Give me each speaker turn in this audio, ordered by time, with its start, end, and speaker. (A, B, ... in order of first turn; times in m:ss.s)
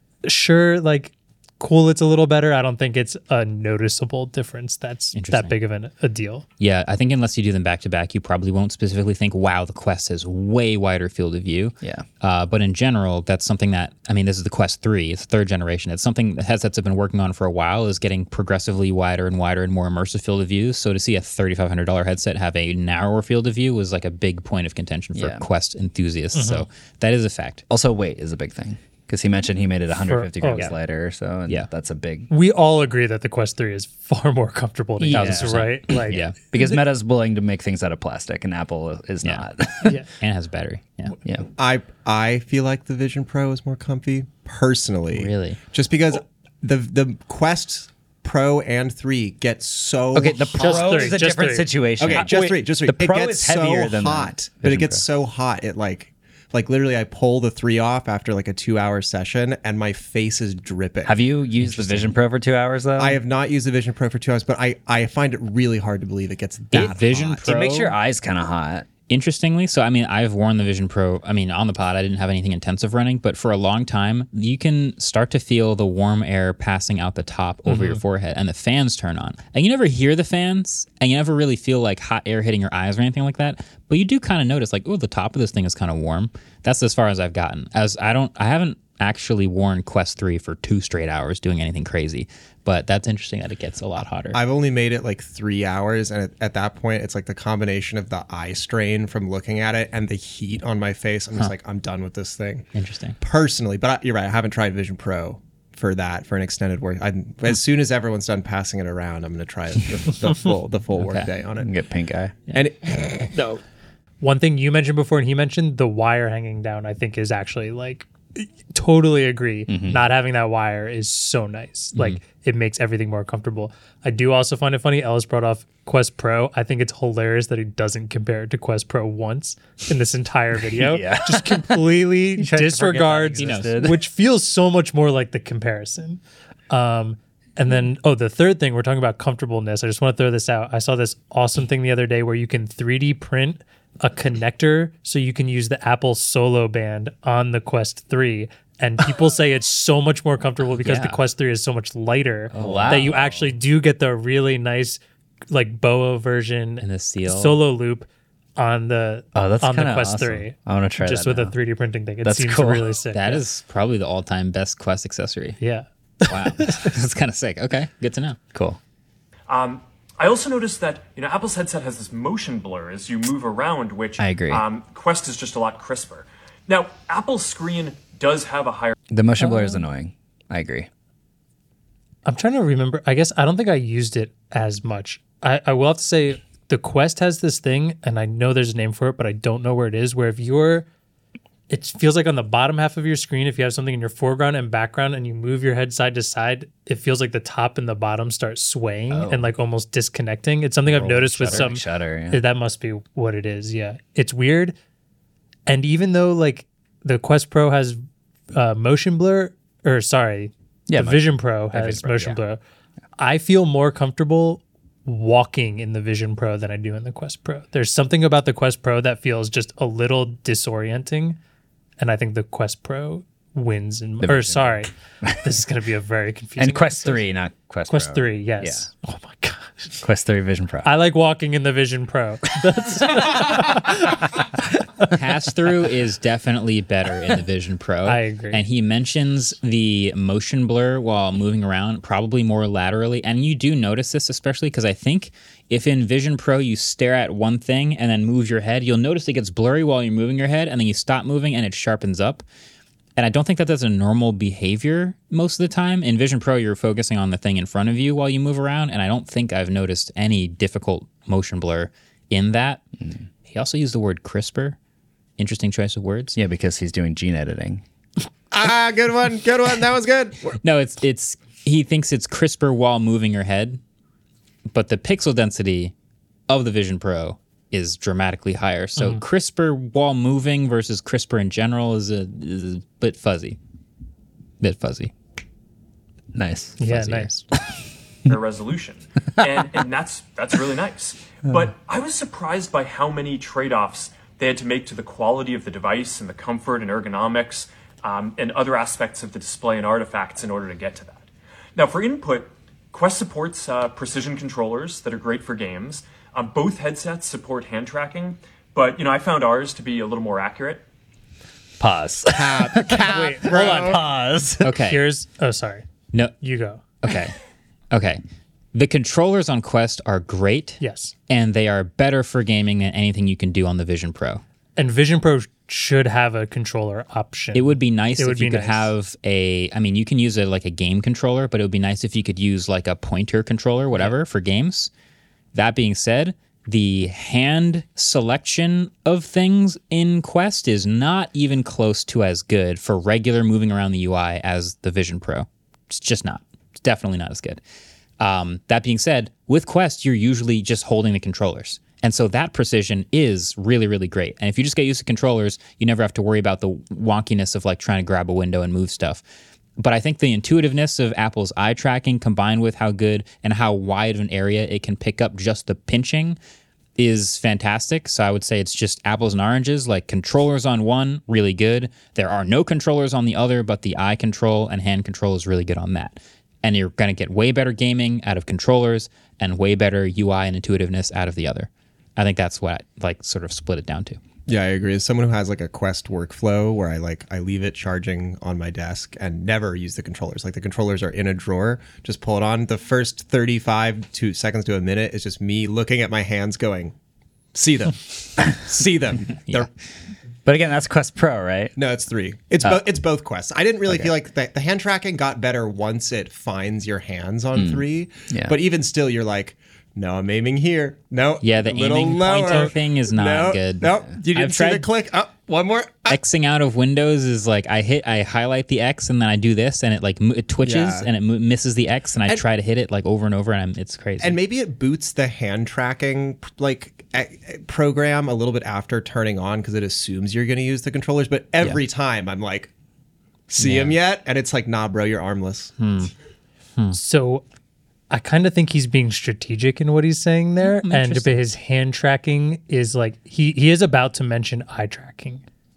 0:00.2-0:06.4 A
0:05.1-0:05.6 B
0:06.6-0:27.6 B
0:25.2-0:25.4 C
0:26.3-0:26.7 A
0:27.7-0:32.3 C
0:30.1-0:30.7 A
0:32.3-0:36.8 A
0:35.0-0:35.8 C
0:35.1-0:36.4 B
0:36.5-0:40.0 C
0:39.2-0:41.2 B
0:41.6-0:51.2 D
0:45.1-0:45.6 B
0:50.2-0:55.0 C
0:50.6-0:52.3 A
0:52.0-1:01.2 D
1:01.0-1:03.2 C
1:01.6-1:02.1 B
1:03.0-1:07.5 D
1:06.7-1:08.0 B
1:07.4-1:08.9 C
1:09.1-1:34.4 B
1:17.7-1:18.0 A
1:34.3-1:42.7 D
1:42.7-1:43.2 B
1:43.2-1:51.7 D
1:51.0-1:51.3 B
1:51.6-1:52.3 C
1:52.5-1:53.5 D
1:53.3-1:53.6 B
1:54.2-2:43.4 A
1:59.7-2:00.0 C
2:10.7-2:14.0 C
2:13.4-2:13.8 B
2:30.8-2:31.2 C
2:32.5-2:33.1 B
2:32.6-2:33.5 C
2:36.8-2:37.6 B
2:39.4-2:41.5 C
2:42.2-2:42.9 C
2:43.1-2:45.6 B
2:45.6-2:46.9 A
2:46.2-2:48.4 B
2:48.5-2:48.8 C
2:49.5-2:59.0 E
2:54.2-2:54.6 C
2:59.1-3:00.9 C
2:59.4-2:59.8 A
3:02.3-3:10.9 A
3:11.7-3:24.8 A
3:19.1-3:19.5 C
3:20.9-3:21.7 B
3:21.4-3:22.4 C
3:25.7-3:28.0 A
3:28.5-3:32.6 A
3:30.9-3:32.4 C
3:33.2-3:41.4 A
3:42.0-3:47.2 A
3:44.2-3:45.6 C
3:46.6-3:48.9 C
3:47.9-3:50.0 A
3:50.0-3:51.0 C
3:50.8-3:54.5 A
3:55.1-4:12.4 B
3:58.0-3:58.6 A
4:13.2-4:22.8 B
4:23.5-4:24.8 B
4:25.4-4:26.4 B
4:26.4-4:27.8 C
4:28.5-4:30.6 D
4:30.6-4:33.8 B
4:34.7-4:35.9 B
4:36.5-4:43.6 B
4:39.0-4:39.2 A
4:44.6-4:45.1 B
4:46.4-4:46.8 C
4:46.8-4:47.4 A
4:46.8-4:47.3 B
4:48.3-5:10.8 E
5:11.8-5:14.7 C
5:12.3-5:14.1 D
5:13.0-5:14.0 A
5:14.6-5:15.0 B
5:14.7-5:15.9 A
5:16.4-5:16.8 A
5:17.0-5:17.4 B
5:17.9-5:18.2 B
5:18.7-5:24.4 B
5:20.8-5:21.1 A
5:24.8-5:28.9 A
5:27.5-5:34.9 B
5:35.5-5:47.6 B
5:48.2-5:59.2 B
5:59.8-6:06.4 B
6:07.0-6:24.2 B
6:24.5-6:36.9 D
6:37.5-6:39.7 D
6:40.5-6:41.8 C
6:41.8-6:56.2 D
6:47.6-6:48.5 C
6:51.4-6:54.9 B
6:56.1-7:04.4 B
7:00.6-7:01.1 D
7:04.2-7:12.7 D
7:13.5-7:15.7 D
7:13.6-7:14.0 B
7:15.8-7:16.1 B
7:16.9-7:17.4 A
7:18.1-7:25.4 A
7:20.6-7:21.4 B